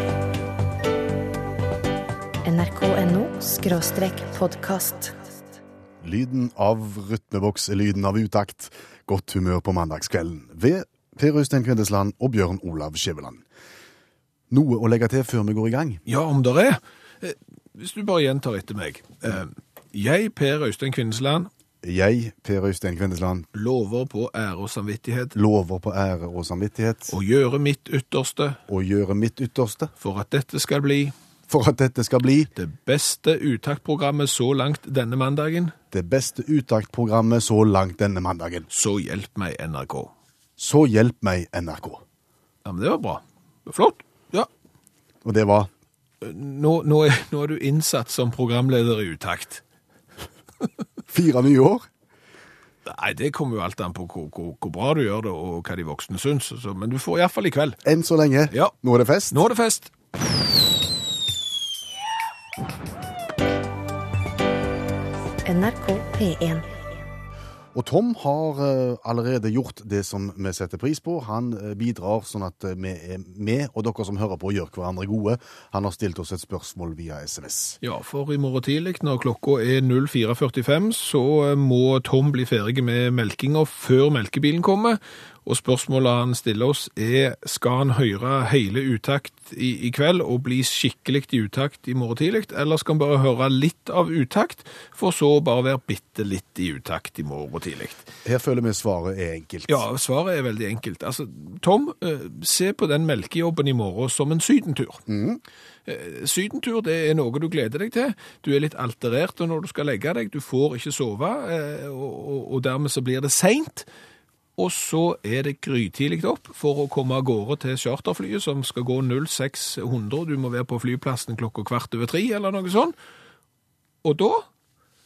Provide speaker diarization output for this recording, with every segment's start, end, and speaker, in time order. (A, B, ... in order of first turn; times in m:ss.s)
0:02.4-0:05.2 A
0:06.0-0:13.4 B
0:14.5-0:16.0 B
0:16.1-0:21.5 C
0:21.8-0:23.5 B
0:23.5-0:25.3 C
0:25.3-0:27.1 B
0:27.1-0:28.6 C
0:28.7-0:29.9 B
0:30.0-0:31.1 C
0:31.5-0:32.5 B
0:32.6-0:35.7 C
0:35.9-0:38.7 B
0:38.7-0:40.1 C
0:40.6-0:42.0 B
0:42.6-0:44.5 C
0:45.2-0:45.7 B
0:46.2-0:49.6 C
0:51.1-0:51.9 B
0:52.8-0:57.8 C
0:57.8-0:59.4 B
0:59.3-0:59.9 C
1:05.4-1:06.7 A
1:07.7-1:17.8 B
1:17.8-1:38.1 C
1:38.2-1:39.8 B
1:39.7-1:45.0 C
1:45.1-1:45.4 B
1:45.8-1:53.9 C
1:54.6-2:02.9 C
2:04.0-2:04.5 C